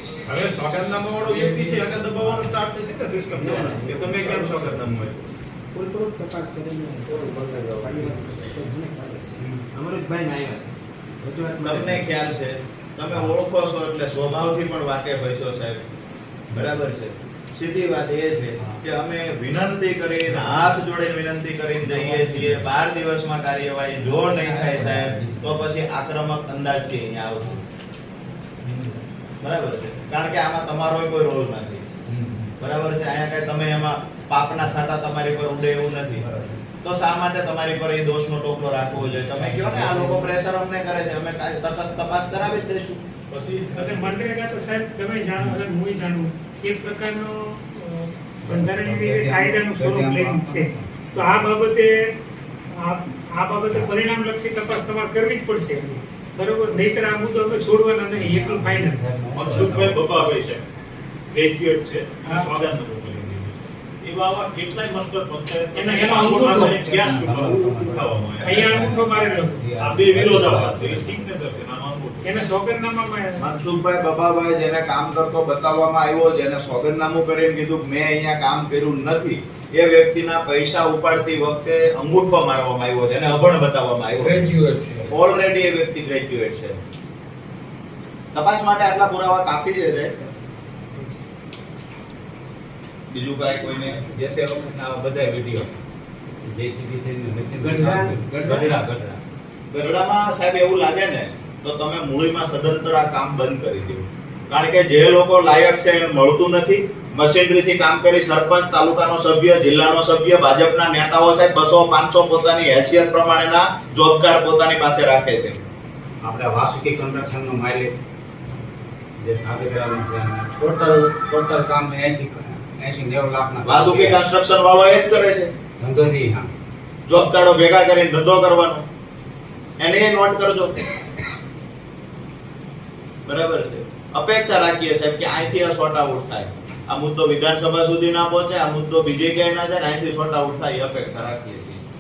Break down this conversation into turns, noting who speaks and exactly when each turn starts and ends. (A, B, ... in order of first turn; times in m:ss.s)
0:00.2-0:05.3 A
0:02.2-0:02.5 B
0:03.3-0:04.8 C
0:05.7-0:12.2 C
0:07.5-0:08.4 B
0:09.4-0:09.6 B
0:11.6-0:15.8 D
0:16.5-0:27.6 D
0:18.6-0:18.8 B
0:20.2-0:20.8 B
0:21.8-0:22.7 B
0:24.0-0:25.7 B
0:28.6-0:29.0 B
0:29.4-0:31.8 D
0:32.1-0:32.5 B
0:32.6-0:36.2 D
0:36.2-0:36.6 B
0:36.8-0:43.0 D
0:39.0-0:40.3 B
0:43.3-0:44.2 A
0:43.7-0:52.0 E
0:48.4-0:51.4 B
0:52.8-0:59.0 E
0:58.1-1:00.2 B
0:59.4-1:00.6 A
1:01.3-1:08.8 A
1:02.2-1:02.5 E
1:05.7-1:06.9 E
1:06.7-1:11.2 B
1:08.4-1:09.6 E
1:09.8-1:12.4 A
1:10.9-1:11.2 E
1:12.2-1:13.4 E
1:13.4-1:24.5 D
1:24.6-1:25.1 B
1:25.1-1:26.8 D
1:28.3-1:30.1 D
1:33.1-1:34.0 D
1:33.8-1:35.7 B
1:36.4-1:39.2 B
1:37.6-1:38.7 C
1:39.7-1:55.6 D
1:56.2-1:57.9 B
1:59.2-2:04.2 B
2:03.6-2:05.5 D
2:05.8-2:06.5 B
2:07.1-2:08.8 D
2:09.8-2:10.8 D
2:13.3-2:21.8 D